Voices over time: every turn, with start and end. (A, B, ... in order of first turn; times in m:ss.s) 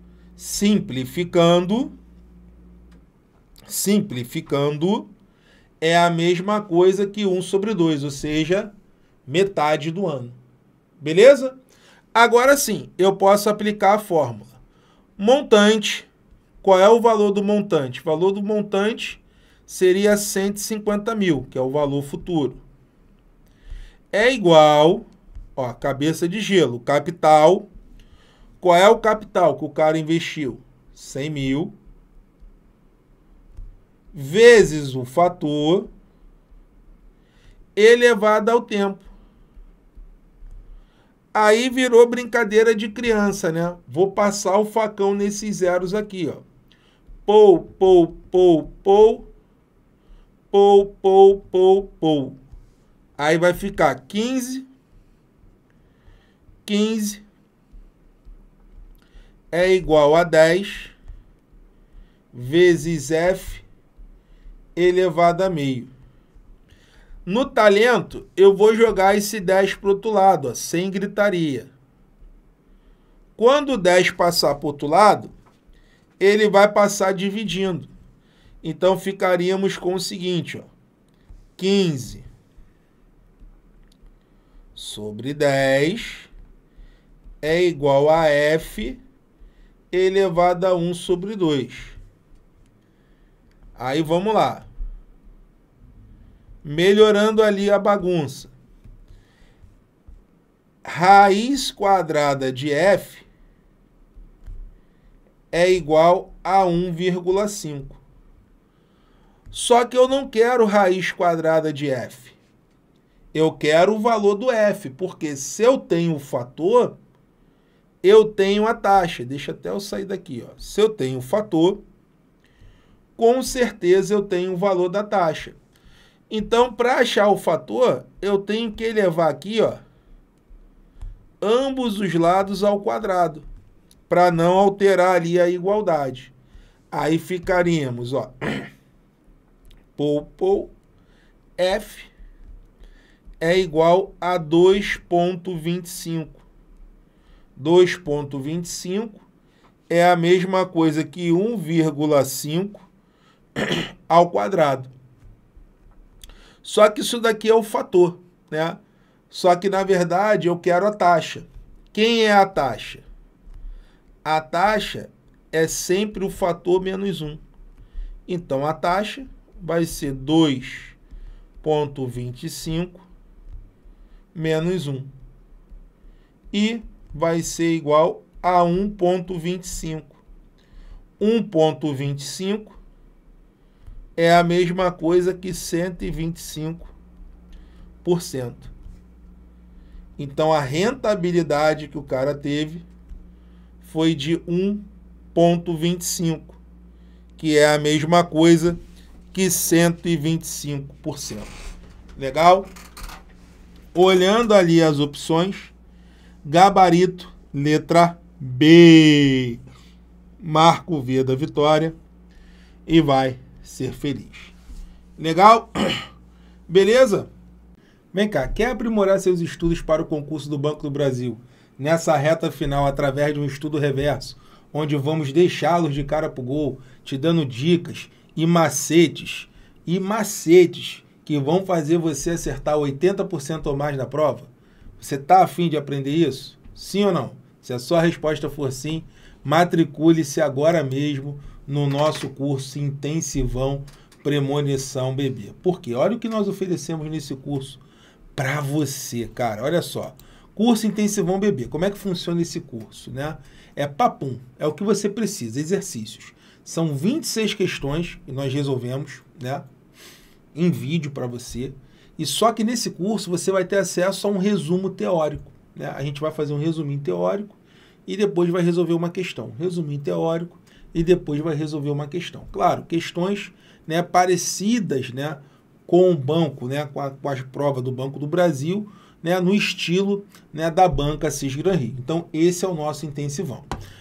0:00.4-0:01.9 A
0:03.6-0:05.1 A
0:05.8-0:08.7 A
0:09.2-0:10.4 A
0:11.0-0:11.6 A
0:12.1-0:14.5 A
0:15.2-0:16.1 A
0:16.6-0:22.6 A
0:24.1-0:27.7 A
0:28.6-0:31.7 A
0:34.1-0:35.9 A
0:37.8-0:39.0 A
0:41.3-0:46.4 A
0:47.2-0:49.3 A
0:50.5-0:52.4 A
0:53.2-0:54.7 A
0:56.6-0:57.2 A
0:59.5-1:00.9 A
1:02.3-1:03.6 A
1:04.8-1:05.9 A
1:07.2-1:11.7 A
1:13.4-1:15.3 A
1:16.2-1:17.9 A
1:18.6-1:20.7 A
1:21.6-1:22.3 A
1:24.7-1:26.3 A
1:27.4-1:29.0 A
1:29.9-1:32.0 A
1:33.8-1:34.7 A
1:36.6-1:38.5 A
1:40.8-1:43.2 A
1:45.5-1:48.0 A
1:49.5-1:52.4 A
1:53.3-1:57.0 A
1:58.0-2:01.8 A
2:03.2-2:05.6 A
2:06.3-2:09.8 A
2:11.4-2:13.4 A
2:14.1-2:16.3 A
2:16.9-2:18.7 A
2:20.0-2:20.7 A
2:21.6-2:22.1 A
2:23.4-2:26.4 A
2:27.6-2:29.2 A
2:29.9-2:32.8 A
2:33.6-2:34.9 A
2:36.6-2:43.0 A
2:44.2-2:47.4 A
2:48.3-2:51.0 A
2:51.6-2:53.0 A
2:54.3-2:55.1 A
2:56.5-3:00.2 A
3:01.2-3:02.8 A
3:04.2-3:06.9 A
3:08.0-3:08.7 A
3:10.2-3:12.8 A
3:13.8-3:16.6 A
3:17.4-3:18.8 A
3:19.3-3:21.5 A
3:22.2-3:22.7 A
3:23.9-3:25.7 A
3:26.4-3:29.6 A
3:30.4-3:31.9 A
3:32.9-3:34.5 A
3:35.2-3:36.0 A
3:36.7-3:37.3 A
3:38.1-4:07.8 A
4:08.4-4:19.6 A
4:20.5-4:43.7 A